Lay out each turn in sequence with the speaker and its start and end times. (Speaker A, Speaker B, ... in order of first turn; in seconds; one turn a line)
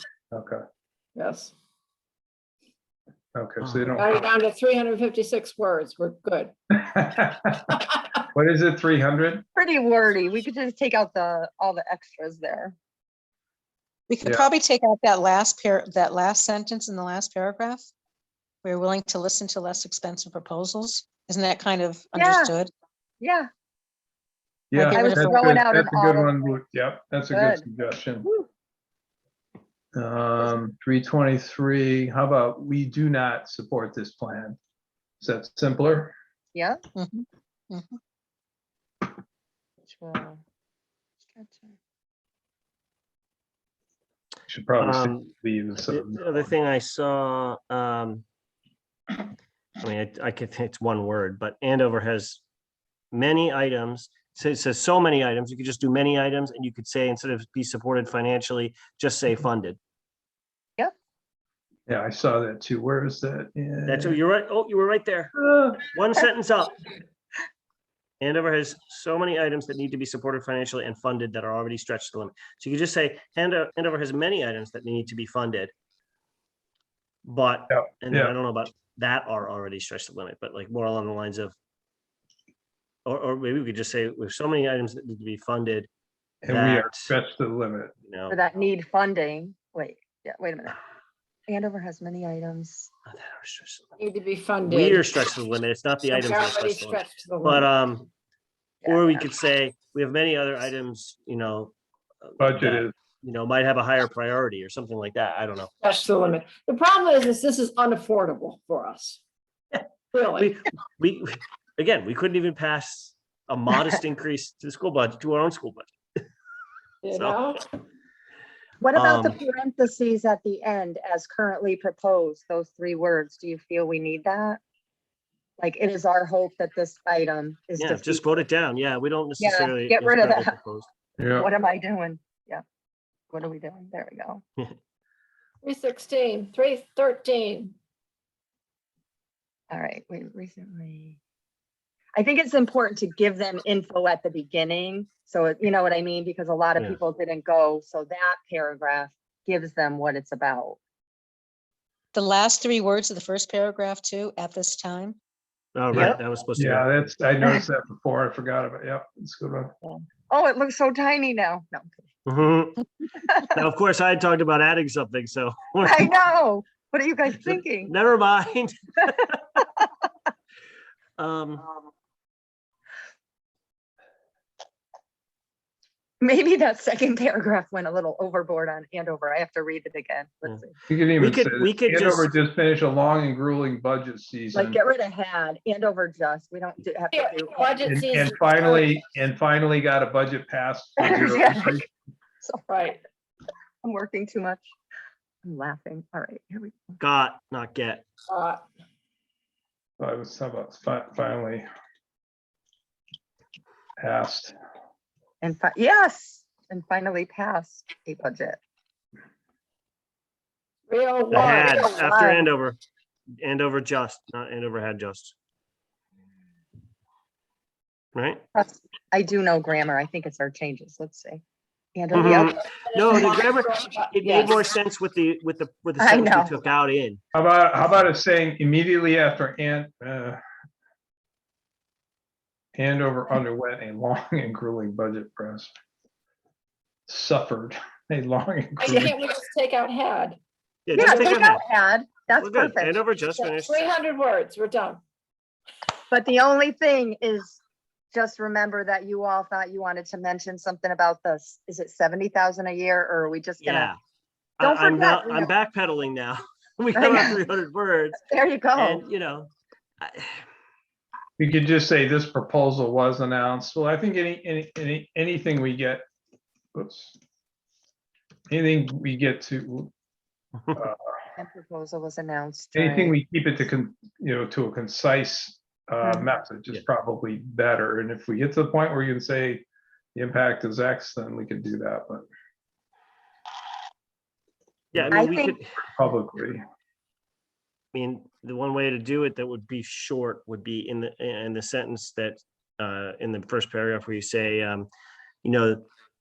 Speaker A: 0.3-0.6
Speaker B: 1.1-1.5
Speaker A: 3.3-4.2
Speaker C: 3.6-4.1
Speaker B: 4.0-6.5
Speaker A: 6.8-7.6
Speaker A: 8.3-9.4
Speaker D: 9.6-12.8
Speaker E: 14.1-17.9
Speaker E: 18.6-22.7
Speaker D: 22.1-22.5
Speaker D: 23.2-23.5
Speaker A: 24.7-28.3
Speaker E: 24.7-25.4
Speaker D: 24.9-26.4
Speaker D: 27.3-27.6
Speaker D: 28.2-28.5
Speaker A: 29.9-34.6
Speaker A: 35.2-36.1
Speaker D: 36.5-36.8
Speaker E: 36.9-38.0
Speaker D: 39.8-40.4
Speaker D: 41.3-41.7
Speaker A: 44.5-46.5
Speaker C: 44.8-45.3
Speaker C: 45.9-48.2
Speaker C: 49.8-52.4
Speaker C: 53.1-59.8
Speaker A: 61.9-64.2
Speaker C: 63.9-65.3
Speaker A: 65.3-65.8
Speaker C: 65.9-66.8
Speaker C: 68.2-75.7
Speaker C: 77.2-81.5
Speaker A: 77.7-78.3
Speaker C: 83.0-85.9
Speaker A: 86.4-87.9
Speaker C: 86.5-87.1
Speaker C: 88.0-88.4
Speaker D: 88.3-90.8
Speaker D: 91.5-92.9
Speaker C: 93.1-93.9
Speaker B: 94.0-95.1
Speaker C: 94.6-98.1
Speaker B: 96.1-97.7
Speaker D: 98.8-99.2
Speaker C: 98.8-105.7
Speaker A: 102.4-102.9
Speaker B: 105.8-109.2
Speaker C: 109.7-115.9
Speaker B: 110.1-110.5
Speaker B: 117.0-117.6
Speaker C: 117.1-117.5
Speaker D: 118.8-124.6
Speaker C: 118.9-119.4
Speaker D: 125.6-128.3
Speaker C: 127.8-130.9
Speaker D: 129.4-130.5
Speaker A: 131.2-131.5
Speaker D: 131.3-132.6
Speaker D: 133.3-134.4
Speaker B: 135.6-137.8
Speaker D: 139.7-141.2
Speaker D: 142.2-150.8
Speaker E: 152.1-155.2
Speaker C: 155.7-157.1
Speaker A: 155.9-159.7
Speaker D: 159.8-162.0
Speaker C: 162.2-162.8
Speaker D: 163.2-163.5
Speaker C: 163.5-166.1
Speaker D: 165.8-167.9
Speaker C: 167.4-169.4
Speaker C: 171.2-171.7
Speaker D: 176.2-180.7
Speaker A: 180.9-184.8
Speaker C: 181.2-182.3
Speaker D: 184.5-188.1
Speaker B: 187.1-188.4
Speaker A: 187.9-191.9
Speaker D: 191.0-191.8
Speaker D: 192.4-192.7
Speaker B: 192.7-193.0
Speaker D: 193.8-194.7
Speaker D: 195.4-197.0
Speaker C: 197.0-198.0
Speaker B: 198.3-198.6
Speaker A: 200.0-201.7
Speaker A: 204.0-204.5
Speaker D: 205.4-208.6
Speaker B: 210.9-212.1
Speaker C: 211.3-212.8
Speaker D: 211.6-212.5
Speaker C: 213.4-215.3
Speaker C: 218.1-218.4
Speaker D: 218.5-221.4
Speaker D: 221.9-222.6
Speaker C: 222.1-227.2
Speaker B: 223.0-223.2
Speaker B: 223.8-224.5
Speaker D: 224.2-224.6
Speaker D: 226.0-226.6
Speaker A: 227.3-230.4
Speaker A: 232.8-235.7
Speaker A: 237.1-239.2
Speaker B: 238.8-240.4
Speaker C: 240.8-241.6
Speaker D: 240.9-243.0
Speaker B: 241.1-241.3
Speaker C: 242.4-243.9
Speaker B: 243.4-245.0
Speaker D: 246.1-247.6
Speaker D: 248.1-253.9
Speaker C: 253.6-254.0
Speaker C: 254.6-258.2
Speaker D: 254.6-255.5
Speaker D: 256.9-257.4
Speaker D: 258.2-259.0
Speaker C: 258.7-260.4
Speaker A: 261.4-266.0
Speaker A: 266.7-267.1
Speaker A: 268.5-269.9
Speaker A: 270.7-271.0
Speaker D: 271.4-273.1
Speaker A: 272.7-282.2
Speaker D: 276.0-276.3
Speaker C: 284.9-285.8
Speaker A: 284.9-286.6
Speaker D: 285.1-285.6
Speaker C: 287.9-294.9
Speaker C: 295.4-295.8